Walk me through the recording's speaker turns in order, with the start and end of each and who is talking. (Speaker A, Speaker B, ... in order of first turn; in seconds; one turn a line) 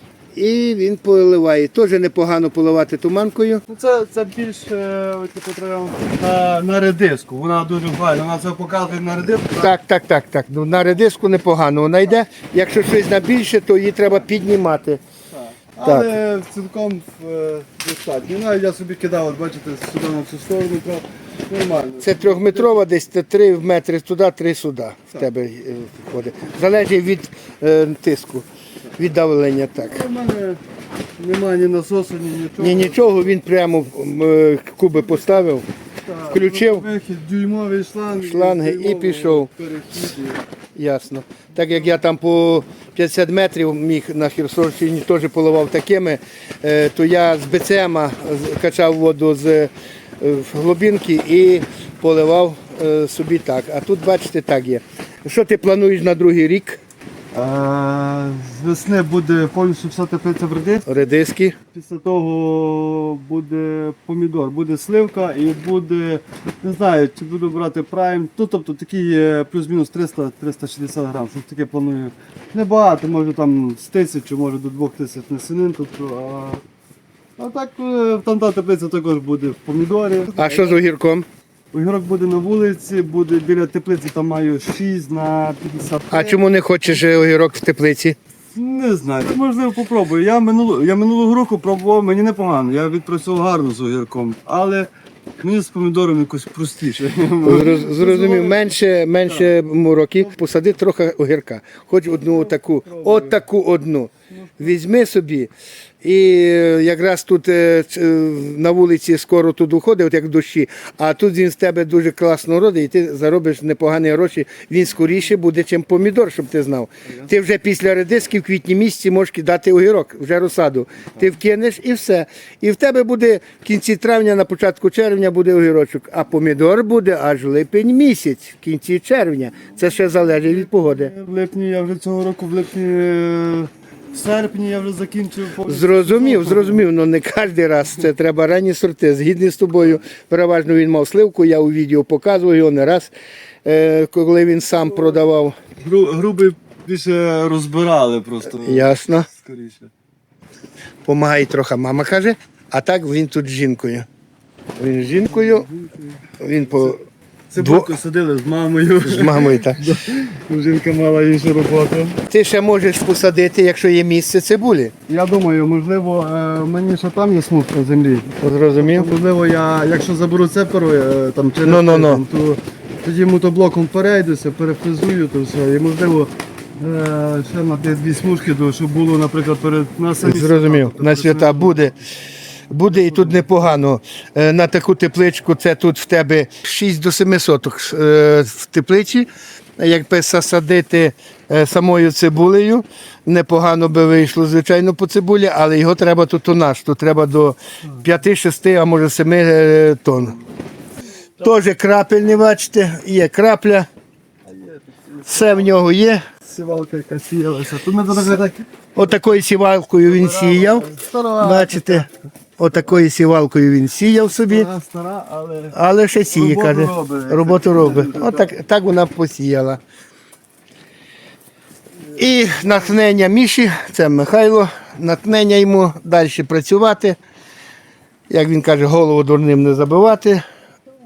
Speaker A: 0.3-3.6
Speaker B: 3.7-9.7
Speaker A: 9.5-15.0
Speaker B: 15.3-22.8
Speaker A: 22.0-30.0
Speaker B: 29.8-30.6
Speaker B: 31.2-33.1
Speaker A: 32.6-35.7
Speaker B: 36.0-40.4
Speaker A: 36.3-36.9
Speaker A: 38.1-39.5
Speaker A: 40.8-56.8
Speaker B: 57.3-60.9
Speaker A: 60.9-61.6
Speaker B: 61.7-76.6
Speaker B: 77.4-80.8
Speaker A: 80.3-81.3
Speaker B: 81.7-87.0
Speaker A: 86.1-88.2
Speaker B: 88.5-94.9
Speaker B: 95.4-98.7
Speaker A: 97.4-105.5
Speaker B: 99.3-99.5
Speaker B: 102.3-103.4
Speaker B: 104.3-104.8
Speaker A: 106.0-131.1
Speaker B: 130.4-136.8
Speaker A: 135.7-143.1
Speaker A: 143.7-145.6
Speaker B: 145.8-149.9
Speaker A: 148.4-149.3
Speaker A: 151.1-154.1
Speaker A: 154.8-155.7
Speaker B: 155.2-156.3
Speaker A: 156.4-157.1
Speaker B: 157.5-162.2
Speaker A: 157.6-157.9
Speaker A: 159.1-159.9
Speaker A: 162.3-164.9
Speaker B: 165.1-181.8
Speaker A: 168.4-169.1
Speaker A: 171.6-172.2
Speaker A: 180.2-182.0
Speaker A: 182.7-200.4
Speaker B: 182.9-183.5
Speaker A: 201.4-203.9
Speaker B: 204.5-205.8
Speaker A: 205.3-206.2
Speaker B: 206.4-208.6
Speaker A: 208.9-214.7
Speaker B: 210.1-212.1
Speaker B: 214.4-215.8
Speaker A: 215.7-219.8
Speaker B: 216.3-218.5
Speaker A: 222.2-227.2
Speaker A: 228.3-230.4